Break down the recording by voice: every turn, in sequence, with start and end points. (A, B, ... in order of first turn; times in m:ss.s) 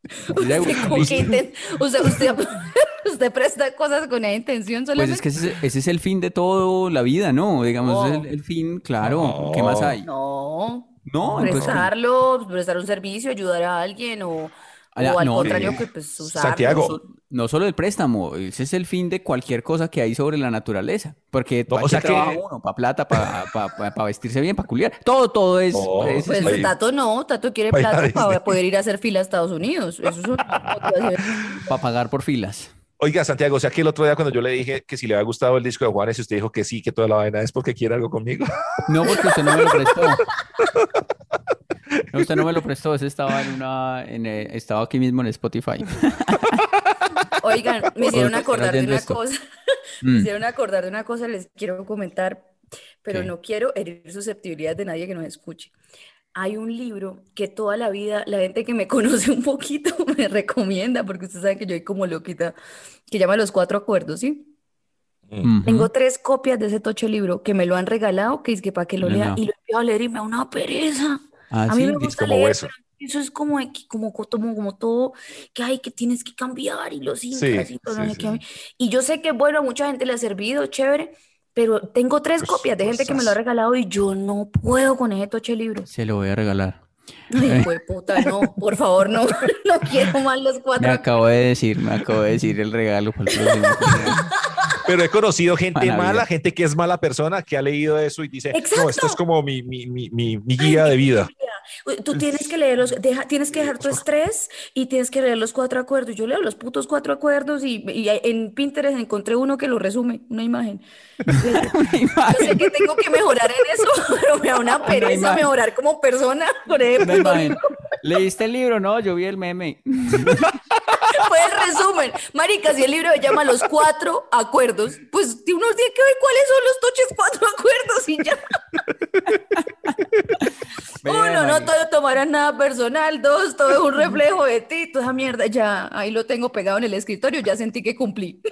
0:00.3-0:05.2 A
0:00.3-0:01.3 B
0:00.9-0:01.3 C
0:05.0-0:10.1 B
0:07.8-0:08.3 A
0:09.0-0:10.0 C
0:10.0-0:17.0 A
0:11.1-0:11.9 B
0:11.4-0:11.8 C
0:15.0-0:15.8 B
0:15.4-0:17.0 C
0:16.7-0:26.7 B
0:21.7-0:22.4 C
0:25.7-0:26.7 C
0:26.3-0:31.7 A
0:27.7-0:28.6 C
0:30.6-0:30.9 C
0:31.7-0:32.7 B
0:33.0-0:38.5 C
0:38.9-0:40.2 B
0:40.6-0:40.9 C
0:42.1-0:42.4 C
0:42.1-0:46.6 B
0:47.4-0:49.4 A
0:48.1-0:49.2 B
0:50.0-0:50.3 B
0:50.1-0:55.7 A
0:56.4-1:02.6 A
1:03.1-1:04.5 A
1:05.4-1:05.9 B
1:05.6-1:25.9 A
1:09.0-1:09.4 B
1:11.5-1:12.2 B
1:12.0-1:12.7 C
1:17.3-1:18.4 C
1:22.4-1:23.4 C
1:25.9-1:26.8 B
1:27.3-1:31.1 A
1:27.3-1:27.7 B
1:30.8-1:34.2 B
1:33.4-1:34.2 A
1:34.8-1:41.3 C
1:35.8-1:36.3 B
1:38.5-1:39.2 A
1:40.6-1:51.8 A
1:43.5-1:44.0 C
1:51.3-1:52.8 B
1:52.3-1:57.6 A
1:54.9-1:55.4 B
1:57.0-2:00.6 B
2:01.1-2:08.5 A
2:09.3-2:11.7 B
2:11.0-2:18.4 A